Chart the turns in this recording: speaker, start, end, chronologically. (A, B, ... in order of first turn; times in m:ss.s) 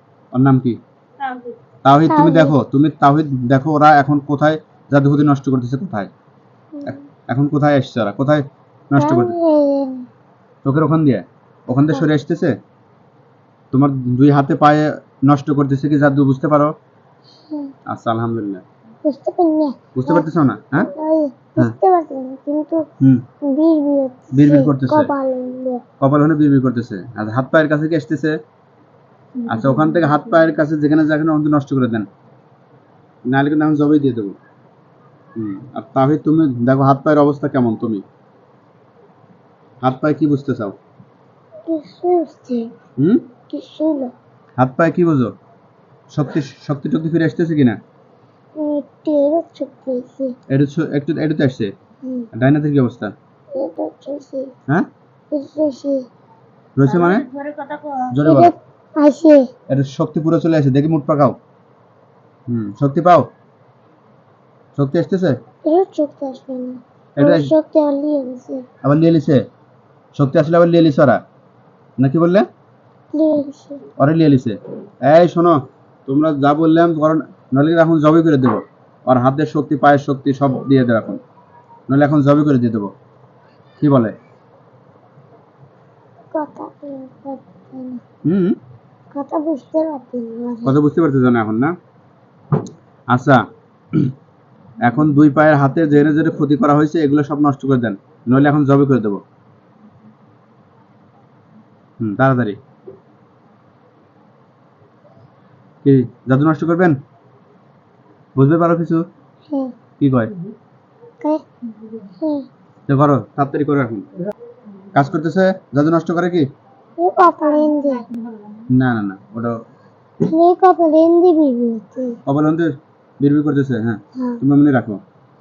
0:00.3-0:00.8 A
0:01.8-0:06.1 A
0:02.1-0:02.6 B
0:06.8-0:07.0 B
0:06.9-0:09.4 A
0:09.0-0:10.1 B
0:10.6-0:12.5 A
0:13.7-0:16.7 A
0:17.5-0:17.7 B
0:17.9-0:18.6 A
0:19.0-0:20.3 B
0:20.0-0:20.9 A
0:20.8-0:22.8 B
0:23.4-0:25.8 B
0:24.3-0:25.1 A
0:26.0-0:28.4 A
0:29.5-0:32.1 A
0:33.3-0:34.4 A
0:35.4-0:38.0 A
0:39.8-0:40.8 A
0:41.7-0:42.7 B
0:43.0-0:43.2 A
0:43.5-0:44.1 B
0:44.6-0:45.3 A
0:46.1-0:47.8 A
0:48.6-0:50.3 B
0:50.5-0:51.7 A
0:52.0-0:52.3 B
0:52.3-0:53.1 A
0:53.6-0:54.5 B
0:55.3-0:56.0 B
0:56.8-0:57.3 A
0:58.1-0:58.5 A
0:58.2-0:59.5 B
0:59.7-1:01.4 A
1:02.5-1:03.3 A
1:04.8-1:05.4 A
1:05.7-1:08.6 B
1:07.2-1:07.5 A
1:08.8-1:09.4 A
1:10.2-1:11.2 A
1:12.0-1:12.4 A
1:13.1-1:13.8 B
1:14.0-1:21.2 A
1:21.9-1:22.9 A
1:23.8-1:24.2 A
1:26.3-1:28.0 B
1:28.2-1:28.6 A
1:29.1-1:30.8 B
1:30.6-1:31.7 A
1:33.1-1:33.4 A
1:34.8-1:39.2 A
1:42.0-1:42.6 A
1:45.8-1:47.0 A
1:48.4-1:49.0 A
1:49.5-1:49.7 B
1:50.0-1:50.3 A
1:52.1-1:52.5 B
1:52.9-1:54.1 A
1:55.0-1:56.5 A
1:57.0-1:58.1 B
1:58.7-1:59.6 A
2:00.2-2:02.2 B
2:02.3-2:05.0 A
2:04.2-2:04.4 B